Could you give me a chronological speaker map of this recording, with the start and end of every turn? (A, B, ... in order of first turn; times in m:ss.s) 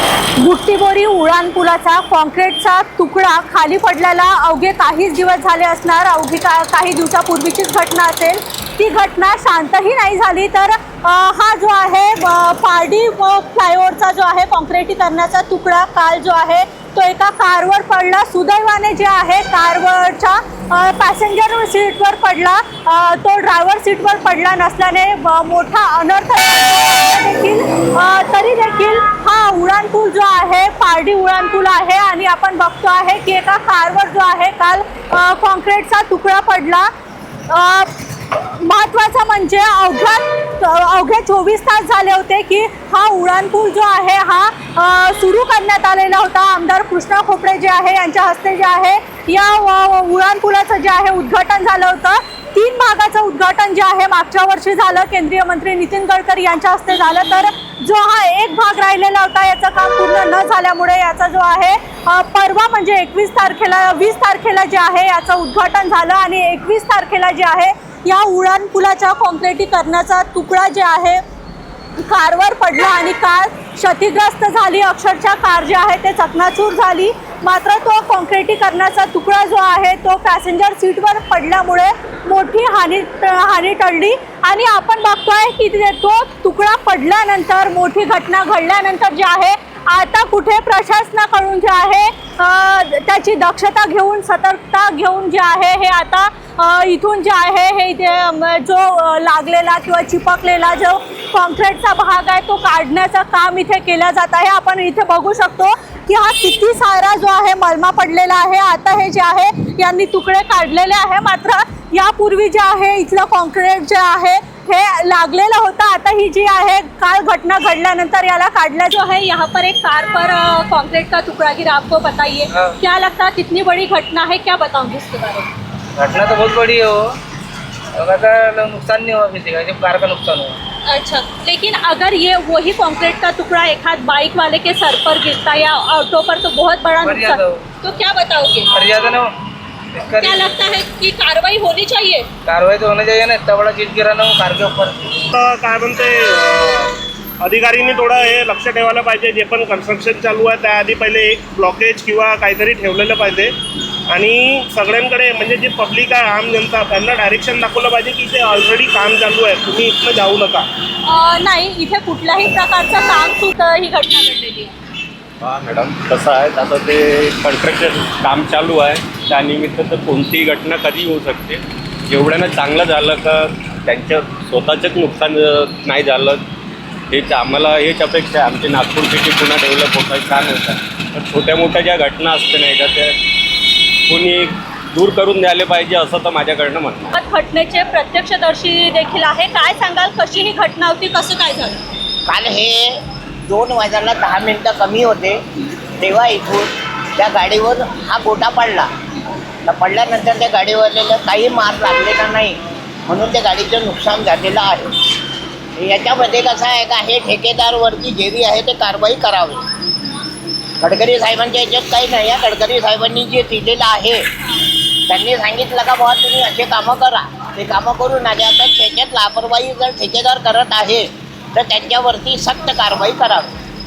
0:00.4-0:36.9 A
0:37.5-1:11.2 A
1:12.0-2:05.5 A
2:06.0-2:07.1 B
2:08.0-2:10.6 B
2:10.8-2:18.8 A
2:17.0-2:17.6 B
2:18.7-2:19.3 B
2:19.9-2:20.5 B
2:20.2-2:22.3 A
2:22.4-2:25.3 B
2:25.3-2:33.5 C
2:34.1-2:40.7 C
2:41.0-2:44.7 A
2:45.4-2:56.4 D
2:57.1-3:03.2 D
3:04.1-3:07.0 D
3:07.1-3:11.8 A
3:12.3-3:15.4 E
3:16.0-3:18.9 E
3:19.6-3:24.9 E
3:25.8-3:29.6 E
3:30.8-3:34.2 E
3:35.1-3:43.5 E